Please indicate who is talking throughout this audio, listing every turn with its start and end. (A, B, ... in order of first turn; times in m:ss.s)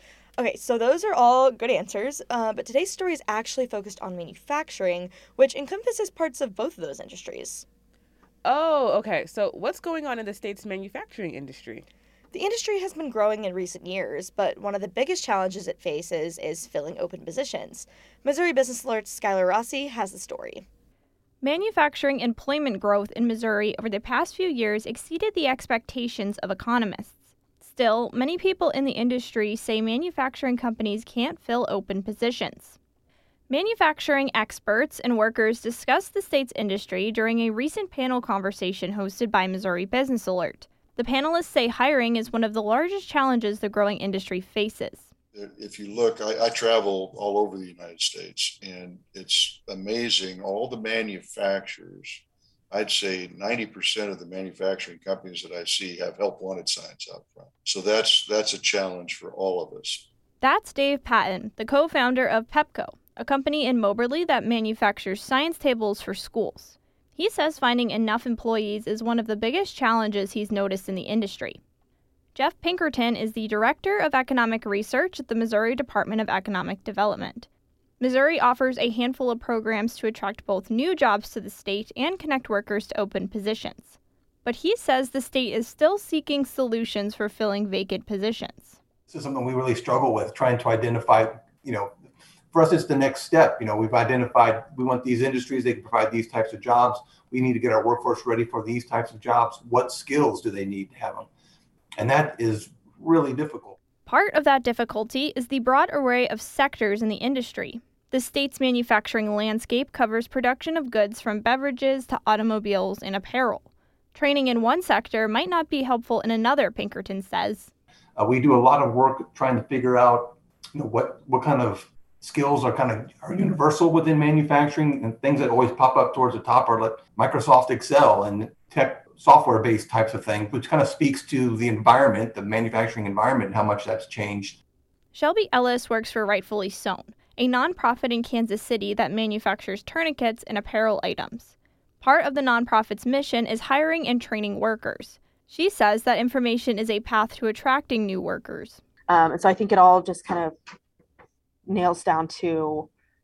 0:00.4-0:07.6 A
0:08.4-0:11.8 B
0:12.3-0:20.6 A
0:21.4-0:32.8 C
0:33.5-0:45.1 C
0:45.3-1:00.1 D
1:00.4-1:11.6 C
1:12.4-1:17.5 C
1:18.0-1:28.8 C
1:29.1-1:31.9 E
1:32.5-1:41.3 E
1:42.0-1:43.8 E
1:44.1-1:57.7 C
1:58.2-2:14.6 E
2:15.1-2:28.8 C
2:29.1-2:30.6 F
2:31.7-2:32.9 F